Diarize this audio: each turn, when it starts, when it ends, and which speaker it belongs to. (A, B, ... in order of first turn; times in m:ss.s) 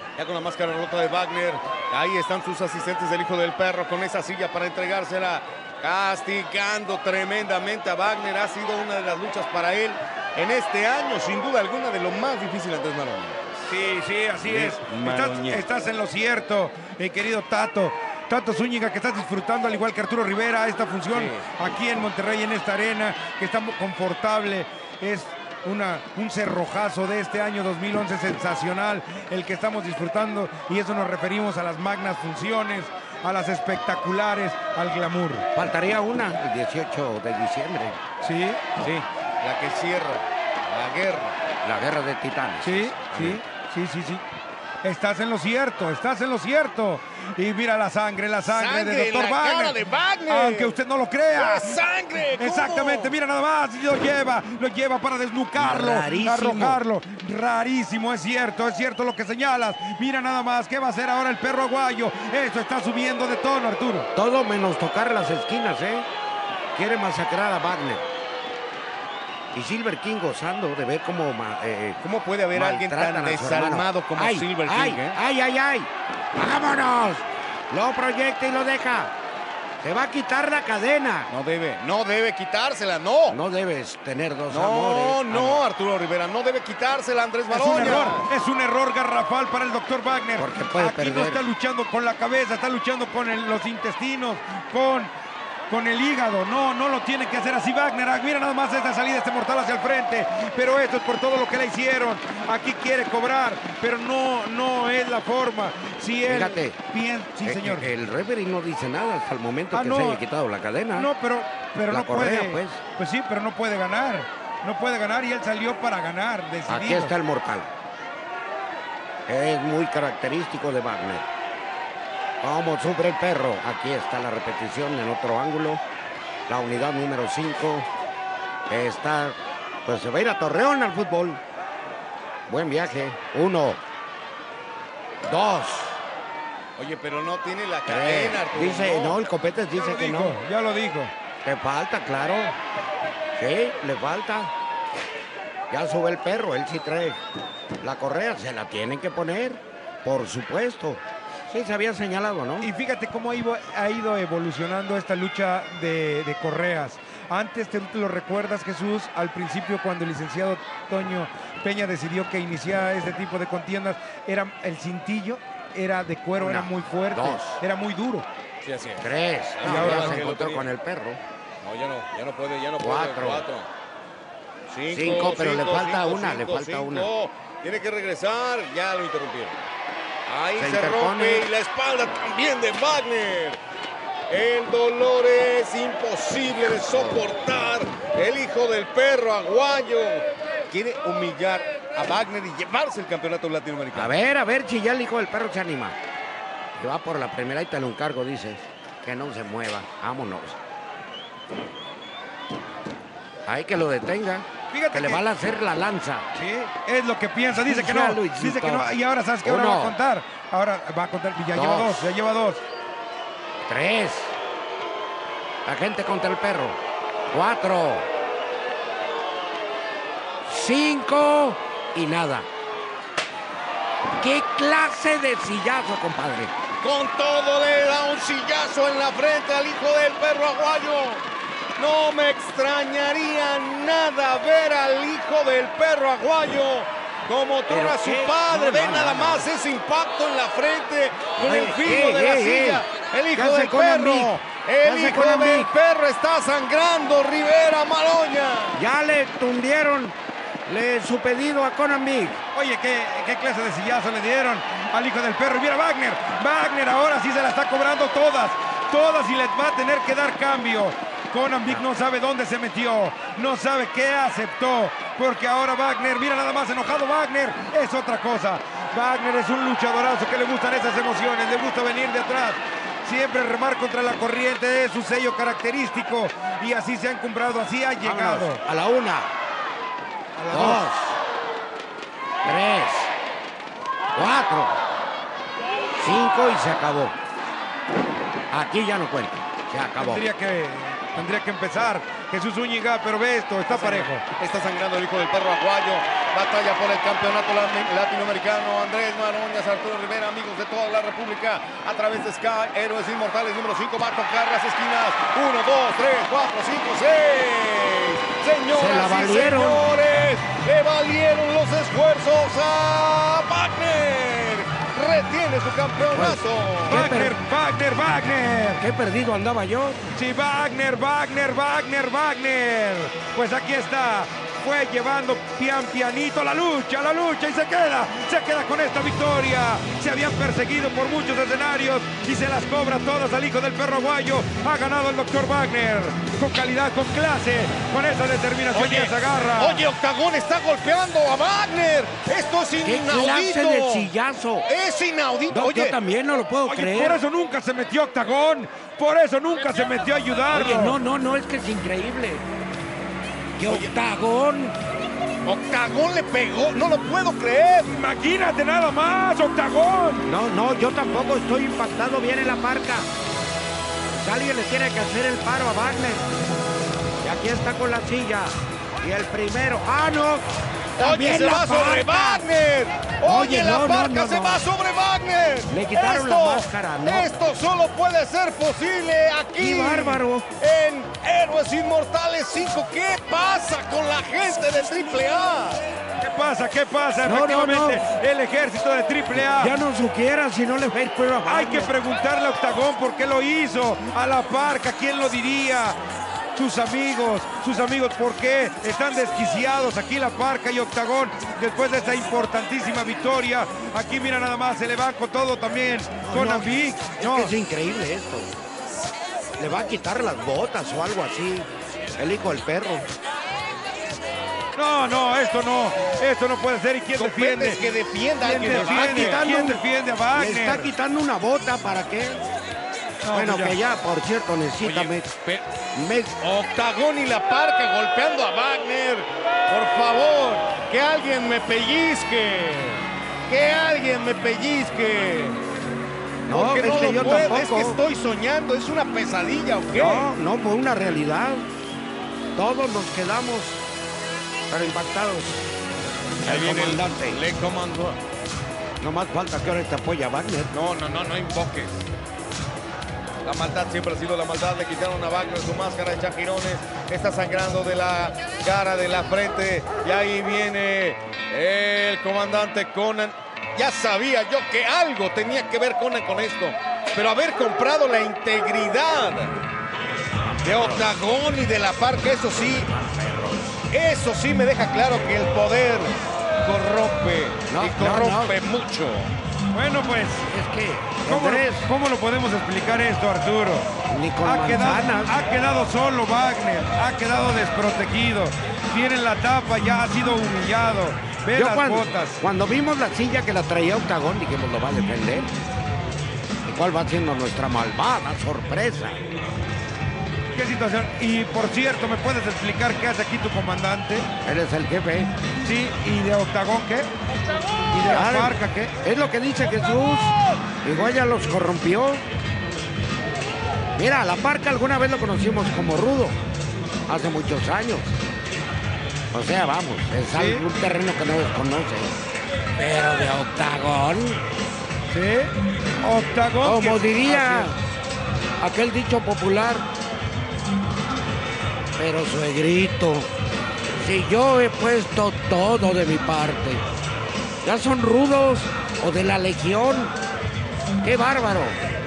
0:00.2-0:13.7 A
0:13.7-0:35.5 B
0:14.4-0:15.6 A
0:21.1-0:21.5 A
0:35.6-0:38.0 C
0:38.2-0:38.8 B
0:38.8-0:41.4 A
0:41.6-0:43.4 C
0:42.6-0:44.2 B
0:44.8-0:51.8 B
0:48.5-0:50.8 A
0:51.3-0:53.1 A
0:52.4-1:04.1 B
0:55.6-0:56.8 C
1:04.2-1:06.1 C
1:06.8-1:08.0 C
1:09.5-1:12.0 C
1:12.0-1:15.2 A
1:12.5-1:19.1 C
1:19.8-1:21.3 C
1:21.3-1:23.4 A
1:23.3-1:25.6 C
1:24.5-1:28.3 A
1:27.5-1:35.1 B
1:30.4-1:31.4 C
1:35.7-1:47.9 B
1:46.3-1:46.8 C
1:47.4-1:51.1 C
1:49.7-1:50.2 B
1:50.9-1:57.1 B
1:51.9-1:52.8 C
1:56.7-1:57.7 C
1:59.3-2:01.3 C
2:02.4-2:05.8 C
2:06.5-2:07.9 C
2:08.7-2:11.4 C
2:12.5-2:13.8 C
2:15.2-2:16.0 C
2:16.8-2:19.2 A
2:17.9-2:20.4 C
2:19.7-2:21.1 B
2:21.4-2:22.6 C
2:23.4-2:24.5 C
2:25.7-2:27.2 C
2:27.8-2:32.7 C
2:32.6-2:48.3 B
2:46.4-2:47.6 C
2:48.6-2:50.7 A
2:49.0-2:51.2 C
2:49.6-2:50.3 B
2:51.6-2:53.7 A
2:52.8-2:53.5 C
2:54.7-2:59.6 A
2:54.9-2:57.1 C
3:00.3-3:03.6 A
3:00.6-3:01.5 C
3:04.3-3:14.2 A
3:13.9-3:16.0 C
3:16.8-3:20.6 C
3:23.5-3:26.3 C
3:24.7-3:25.2 B
3:26.3-3:32.6 B
3:27.5-3:28.9 C
3:29.4-3:30.0 C
3:31.5-3:32.1 C
3:33.7-3:34.4 C
3:35.7-3:36.8 C
3:37.3-3:38.1 C
3:40.5-3:42.5 C
3:44.1-3:46.5 C
3:46.8-3:51.2 A
3:51.8-4:08.8 A
3:57.7-3:59.5 C
4:01.4-4:05.7 C
4:08.7-4:12.4 C
4:12.5-4:38.6 B
4:38.0-4:39.3 C
4:40.4-4:40.9 B
4:40.5-4:41.2 C
4:42.4-4:43.1 C
4:44.2-4:44.8 C
4:46.0-4:47.2 C
4:48.5-4:50.2 C
4:50.0-4:54.2 B
4:53.7-5:17.0 A
5:08.7-5:09.8 C
5:16.1-5:17.4 C
5:16.9-5:18.8 B
5:18.8-5:20.1 C
5:20.1-5:39.8 B
5:38.7-5:44.1 A
5:42.8-5:44.7 C
5:44.7-5:46.0 A
5:45.5-5:47.2 C
5:46.7-5:51.0 B
5:50.5-5:52.4 C
5:53.6-5:54.8 C
5:53.7-5:53.9 A
5:55.4-5:58.0 A
5:57.9-6:00.3 B
6:00.2-6:03.1 C
6:04.1-6:06.3 C
6:07.2-6:10.5 C
6:11.0-6:12.4 C
6:11.0-6:25.8 A
6:13.2-6:14.6 C
6:15.7-6:17.3 C
6:19.6-6:20.5 C
6:26.2-6:29.8 B
6:27.2-6:28.0 C
6:29.4-6:31.9 C
6:31.4-6:36.0 B
6:36.6-6:47.6 B
6:46.2-6:48.5 C
6:49.6-6:53.1 C
6:54.8-6:57.8 B
6:57.2-6:59.8 A
6:58.4-7:00.9 B
6:58.6-6:59.8 C
7:00.3-7:02.4 C
7:03.2-7:03.8 B
7:03.3-7:05.3 C
7:04.8-7:05.6 A
7:05.9-7:06.4 C
7:06.4-7:15.6 A
7:16.5-7:18.0 C
7:16.5-7:20.3 A
7:19.9-7:21.7 C
7:22.6-7:23.8 C
7:24.7-7:25.7 C
7:26.4-7:27.4 C
7:26.4-7:28.2 A
7:29.0-7:30.7 C
7:30.7-7:32.1 A
7:33.4-7:49.6 A
7:50.5-7:51.1 C
7:50.6-7:52.9 A
7:52.9-7:53.8 C
7:53.9-7:59.3 A
7:57.7-7:58.6 C
7:59.7-8:00.5 B
8:00.5-8:01.9 C
8:01.2-8:03.9 B
8:04.1-8:05.3 C
8:04.4-8:12.4 B
8:11.5-8:15.5 C
8:16.7-8:19.2 C
8:20.5-8:24.3 B
8:24.4-8:25.3 C
8:25.6-8:27.1 B
8:27.9-8:28.9 B
8:28.1-8:32.2 C
8:34.0-8:36.4 C
8:37.1-8:38.2 C
8:39.3-8:42.1 C
8:40.3-8:40.6 B
8:42.8-8:44.4 C
8:45.1-8:47.7 B
8:46.6-8:47.8 C
8:48.6-8:49.9 C
8:52.0-8:53.3 C
8:54.0-8:56.8 C
8:57.6-9:00.2 C
9:01.0-9:01.8 C